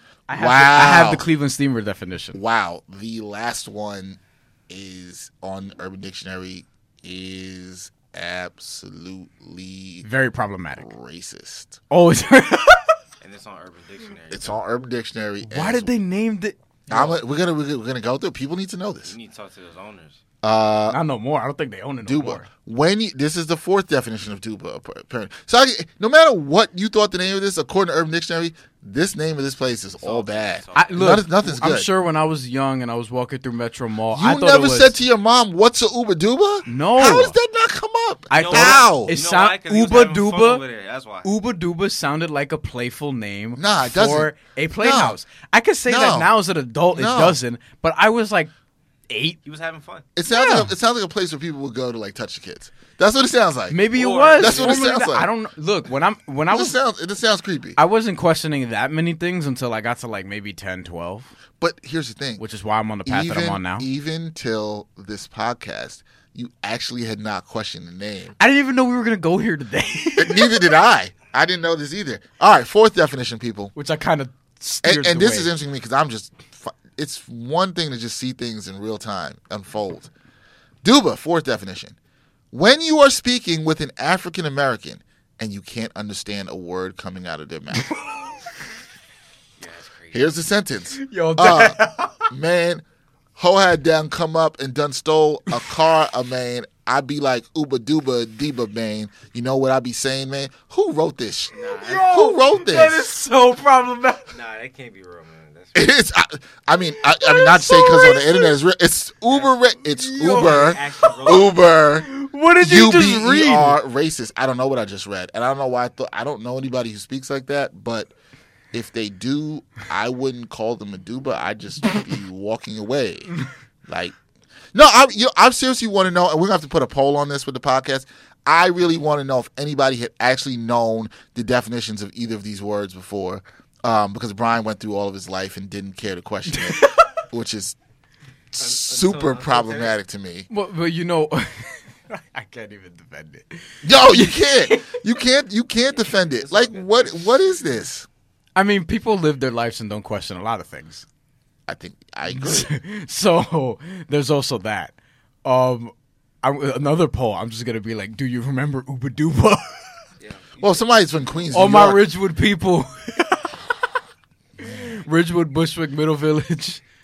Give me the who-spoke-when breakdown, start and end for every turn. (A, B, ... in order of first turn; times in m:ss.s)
0:00.3-0:02.4 A
0:00.3-0:01.2 B
0:02.3-0:10.1 B
0:10.0-0:10.9 A
0:10.8-0:11.8 B
0:11.9-0:13.0 A
0:13.2-0:14.6 C
0:14.3-0:15.9 B
0:15.4-0:17.1 A
0:16.9-0:19.1 B
0:19.0-0:20.2 C
0:20.4-0:21.0 B
0:20.9-0:22.5 A
0:22.0-0:31.9 B
0:30.0-0:31.1 C
0:30.7-0:34.9 A
0:34.1-0:39.1 B
0:36.6-0:37.3 A
0:38.3-0:40.6 A
0:38.3-0:41.3 C
0:41.2-0:48.5 A
0:43.6-0:45.2 B
0:45.9-0:46.3 B
0:46.9-0:47.4 B
0:49.1-0:49.4 A
0:49.4-0:50.1 C
0:50.2-0:53.8 B
0:50.3-0:50.7 A
0:53.7-0:56.8 A
0:53.9-0:54.9 C
0:54.4-0:55.3 B
0:56.5-0:57.8 B
0:57.8-1:01.3 A
1:01.6-1:02.4 B
1:02.4-1:03.8 A
1:03.0-1:08.4 B
1:08.4-1:10.6 A
1:10.2-1:13.7 B
1:13.7-1:15.5 A
1:14.8-1:20.1 B
1:20.8-1:21.9 B
1:22.5-1:27.9 B
1:27.9-1:28.3 A
1:29.6-1:30.4 C
1:30.1-1:31.8 B
1:31.0-1:32.3 A
1:32.3-1:32.8 B
1:33.4-1:43.1 B
1:41.5-1:42.2 C
1:41.6-1:44.3 A
1:44.3-1:45.9 C
1:45.7-1:58.1 B
1:47.1-1:48.5 A
1:49.3-1:49.6 C
1:49.9-1:51.1 A
1:50.2-1:51.6 C
1:52.0-1:53.8 A
1:58.7-2:03.4 B
2:03.9-2:04.2 B
2:04.7-2:17.8 B
2:16.5-2:17.0 A
2:18.5-2:20.5 B
2:18.6-2:20.0 C
2:20.5-2:24.9 A
2:23.8-2:28.1 B
2:25.9-2:27.5 C
2:28.6-2:31.0 A
2:31.7-2:32.7 B
2:32.3-2:34.9 A
2:35.4-2:39.8 A
2:40.2-2:40.8 C
2:40.6-2:42.0 B
2:41.5-2:43.6 A
2:44.6-2:46.8 A